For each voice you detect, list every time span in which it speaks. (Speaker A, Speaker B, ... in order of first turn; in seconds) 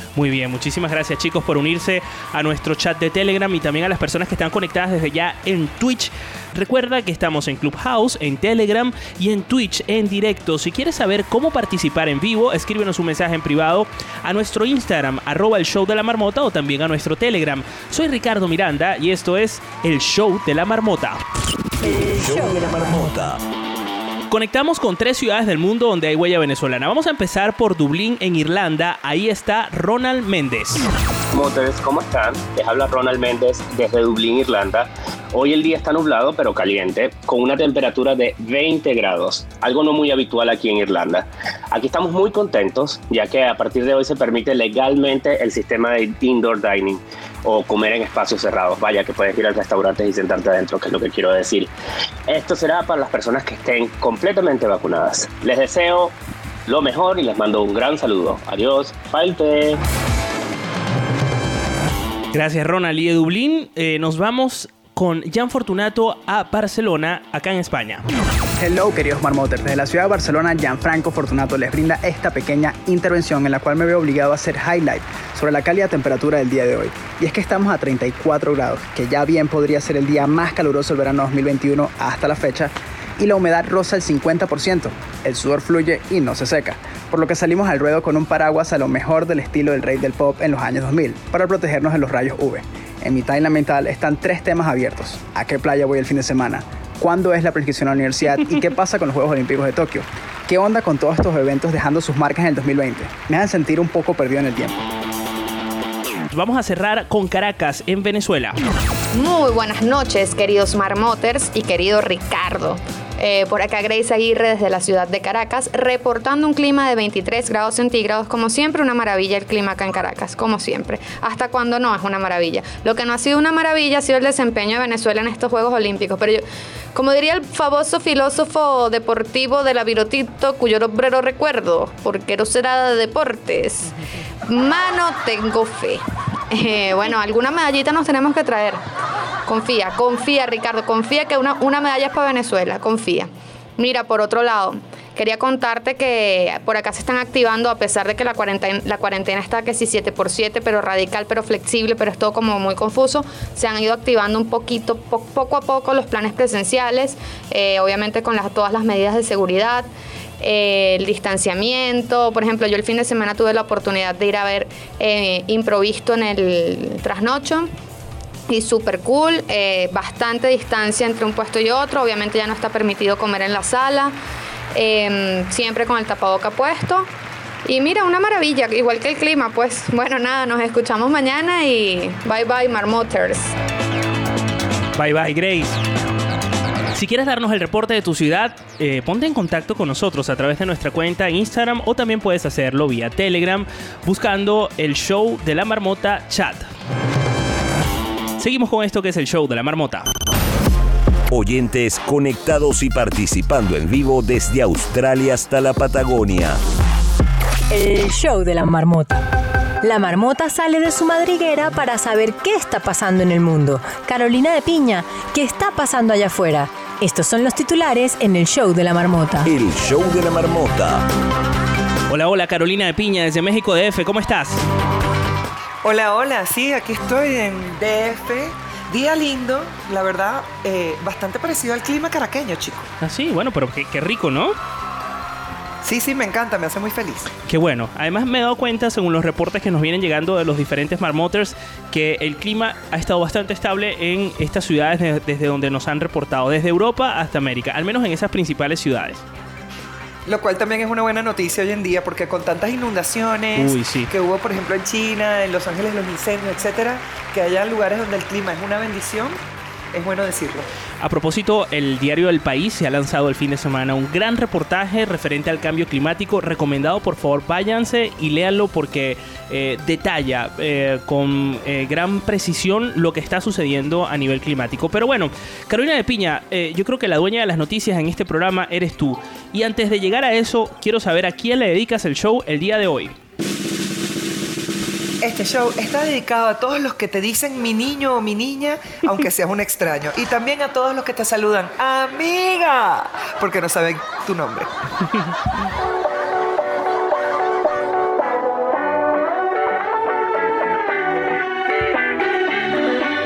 Speaker A: 0.1-21.2, 24.3-30.9, 62.3-68.0, 106.3-108.6, 185.0-185.8, 186.9-196.7, 198.4-200.1, 222.1-224.6, 233.0-234.6, 237.5-249.2, 253.6-254.1, 261.0-283.1
Speaker B: 21.8-23.4, 201.3-206.6, 219.4-221.1
Speaker C: 31.3-51.7, 52.3-56.1, 56.7-59.8
Speaker D: 68.6-104.8
Speaker E: 109.2-126.4, 127.0-134.0, 134.5-138.8, 139.5-159.9, 160.4-167.7, 168.5-174.1, 174.8-177.1, 177.7-183.5
Speaker F: 207.7-209.3, 209.8-219.5
Speaker G: 225.8-232.9, 235.8-237.3, 250.3-259.4, 259.9-260.7, 285.2-294.7